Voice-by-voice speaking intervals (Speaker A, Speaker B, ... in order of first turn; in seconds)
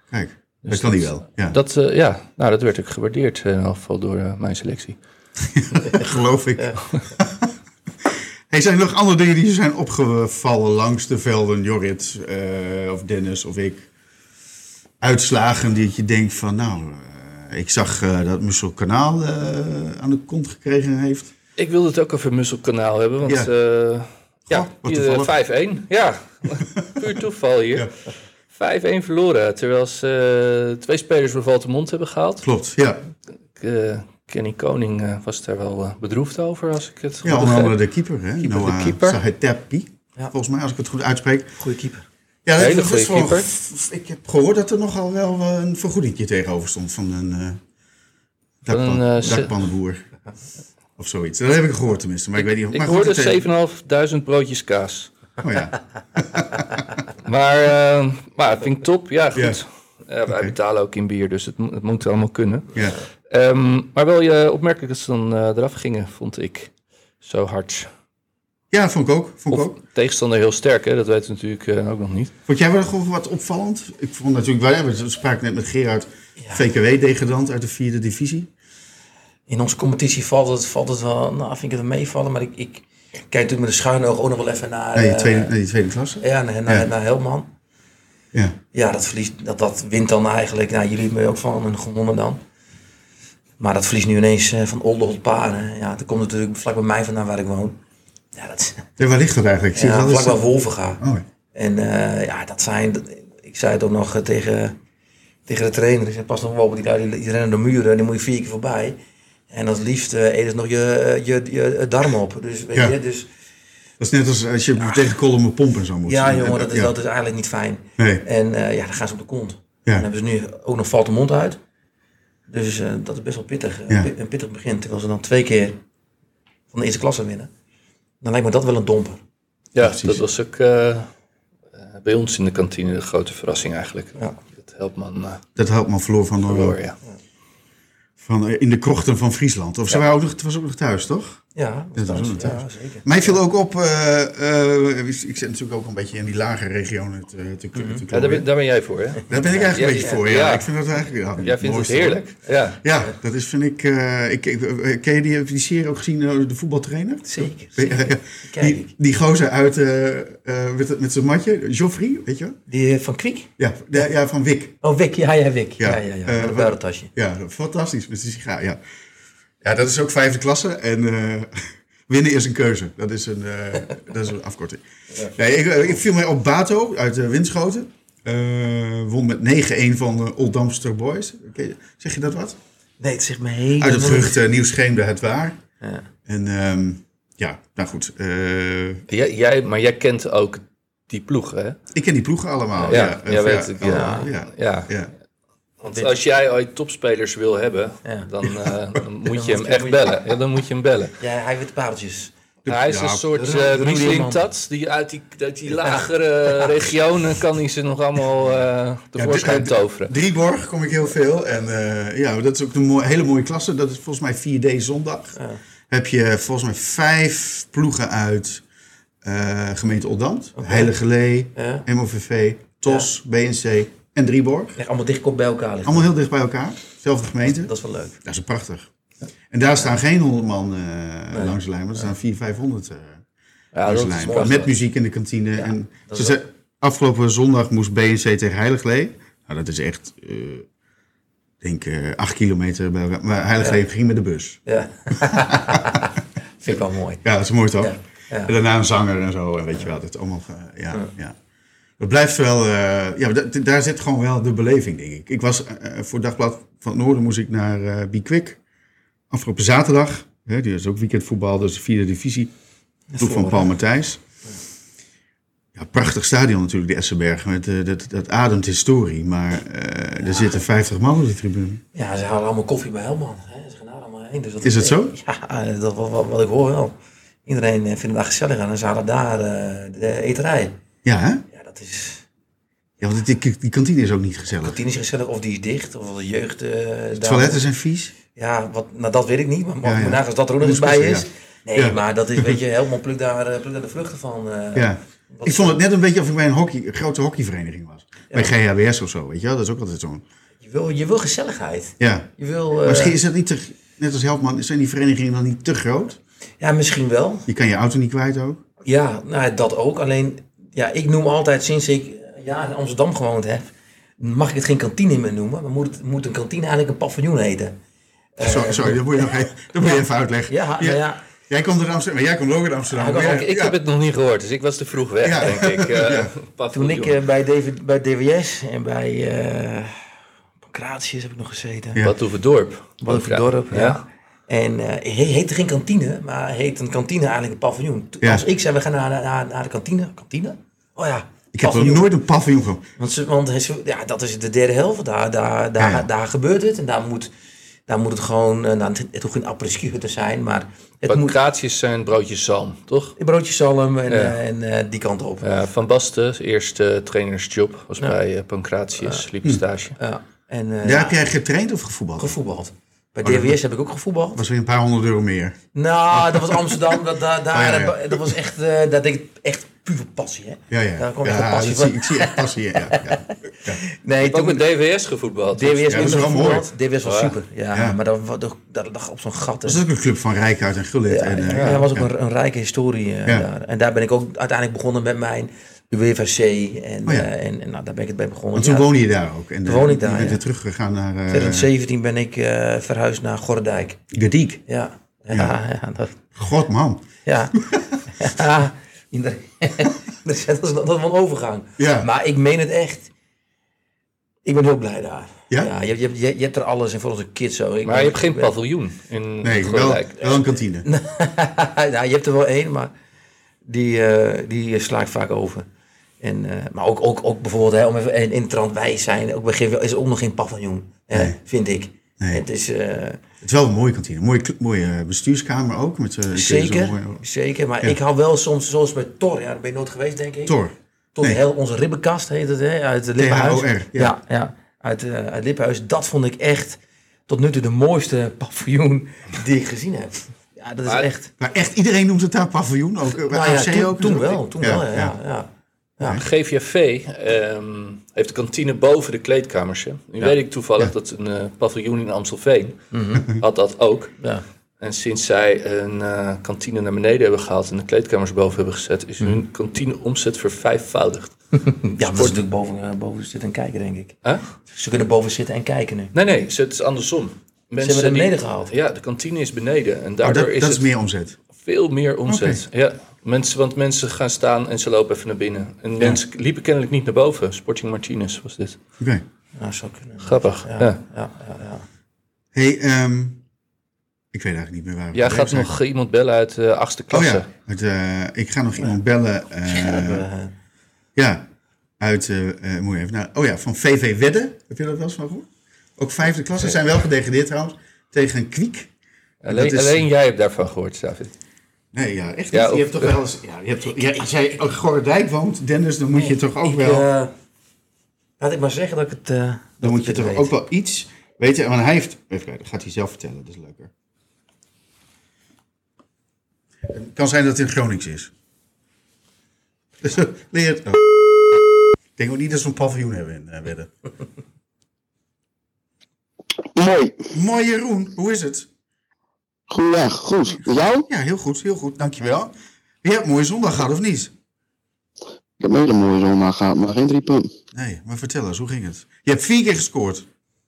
Speaker A: 0.1-1.6, 5.5-7.5, 8.1-13.9, 15.0-21.3, 24.5-25.3, 32.4-33.0, 37.2-41.5, 42.5-47.6, 48.6-50.0, 51.0-53.4, 55.4-56.6, 59.3-59.6, 60.3-60.5, 68.7-69.8, 72.5-78.5, 84.9-86.9, 99.0-100.4, 114.0-116.9, 118.0-118.2, 129.8-130.2, 135.6-136.8, 138.2-141.4, 141.9-148.5, 149.3-152.2, 152.8-162.6, 163.6-164.8, 165.8-168.8, 169.6-182.6, 183.8-185.6, 186.2-189.0, 191.9-195.1, 202.6-203.3, 209.2-215.3, 215.9-218.6, 219.2-224.7, 225.8-227.7, 228.2-228.9, 229.5-233.2, 233.8-240.7, 241.6-244.6, 245.1-245.8, 247.2-251.3, 252.0-258.6, 259.3-262.5, 263.2-264.2, 265.7-271.8, 274.6-275.1, 281.0-281.4, 283.0-284.8, 287.2-288.1, 289.8-292.6, 294.7-300.2, 302.0-302.3, 302.8-306.2, 307.5-308.6, 318.4-323.8, 325.2-326.3, 341.5-342.8, 345.8-346.1, 360.8-362.4, 363.2-363.6, 364.4-365.6, 366.1-366.9, 367.5-368.3, 370.7-373.8, 375.9-376.7, 379.6-382.1, 388.5-391.7, 394.1-394.6, 396.4-397.1, 401.8-402.1, 409.4-410.9, 423.4-427.2, 430.5-431.4, 433.2-434.1, 441.4-445.1, 470.2-471.4, 472.3-472.6, 482.5-483.4, 484.3-485.7, 487.1-490.2, 491.1-491.4, 492.0-498.9, 499.5-500.1, 501.9-507.1, 509.8-513.9, 516.9-518.3, 520.0-521.6, 522.2-523.9, 527.3-528.7, 531.1-532.5, 533.0-534.3, 537.7-540.2
Speaker B: 0.6-5.0, 21.6-27.9, 28.5-32.5, 33.6-37.8, 38.4-39.2, 42.6-43.5, 48.7-49.5, 52.5-55.1, 57.2-62.7, 63.3-66.7, 67.2-67.9, 69.5-72.3, 129.7-131.1, 131.8-135.4, 136.4-136.9, 148.1-150.7, 151.4-152.8, 189.1-191.8, 192.8-194.9, 195.8-201.2, 202.7-210.1, 233.7-234.7, 323.1-327.2, 332.0-334.0, 351.1-353.2, 354.1-354.4, 355.4-360.0, 374.2-376.4, 377.0-377.3, 407.9-410.4, 446.1-454.1, 454.8-461.3, 466.1-470.9, 471.6-478.8, 480.2-481.0, 485.1-487.5, 499.4-501.3, 502.5-503.2
Speaker C: 41.6-42.0, 79.5-85.5, 86.2-87.5, 88.7-92.4, 93.6-97.8, 98.3-98.9, 99.7-101.0, 101.5-104.8, 105.5-109.0, 109.5-113.3, 116.1-121.6, 122.5-125.8, 126.7-127.5, 128.2-129.2, 141.5-143.4, 147.7-148.0, 157.3-158.9, 162.7-163.5, 164.8-167.1, 183.0-184.4, 185.8-186.1, 193.8-194.3, 199.3-200.2, 201.2-202.3, 203.3-204.4, 220.6-220.9, 221.5-221.9, 224.8-226.1, 227.6-228.2, 231.3-231.6, 234.3-234.6, 235.6-236.4, 244.7-247.2, 247.8-248.5, 263.1-263.7, 271.9-276.9, 277.4-280.7, 281.5-282.2, 284.6-287.6, 288.3-295.8, 300.6-303.2, 306.6-307.5, 308.8-317.7, 318.4-321.2, 322.9-323.5, 326.7-329.9, 330.6-332.0, 333.0-342.1, 343.0-347.3, 347.9-351.4, 353.2-355.5, 360.0-361.2, 362.2-364.4, 365.7-374.6, 375.5-379.8, 381.1-388.9, 389.6-390.4, 391.3-394.0, 394.7-396.2, 397.2-397.5, 398.1-403.1, 404.4-408.5, 410.8-412.9, 413.6-415.6, 416.2-423.2, 426.3-430.6, 431.1-441.3, 443.2-445.5, 452.9-453.2, 461.9-464.2, 464.7-466.1, 467.8-468.7, 479.6-481.8, 489.7-490.5, 506.1-507.3, 508.4-510.5
Speaker D: 526.7-527.3, 529.7-531.1, 535.6-537.5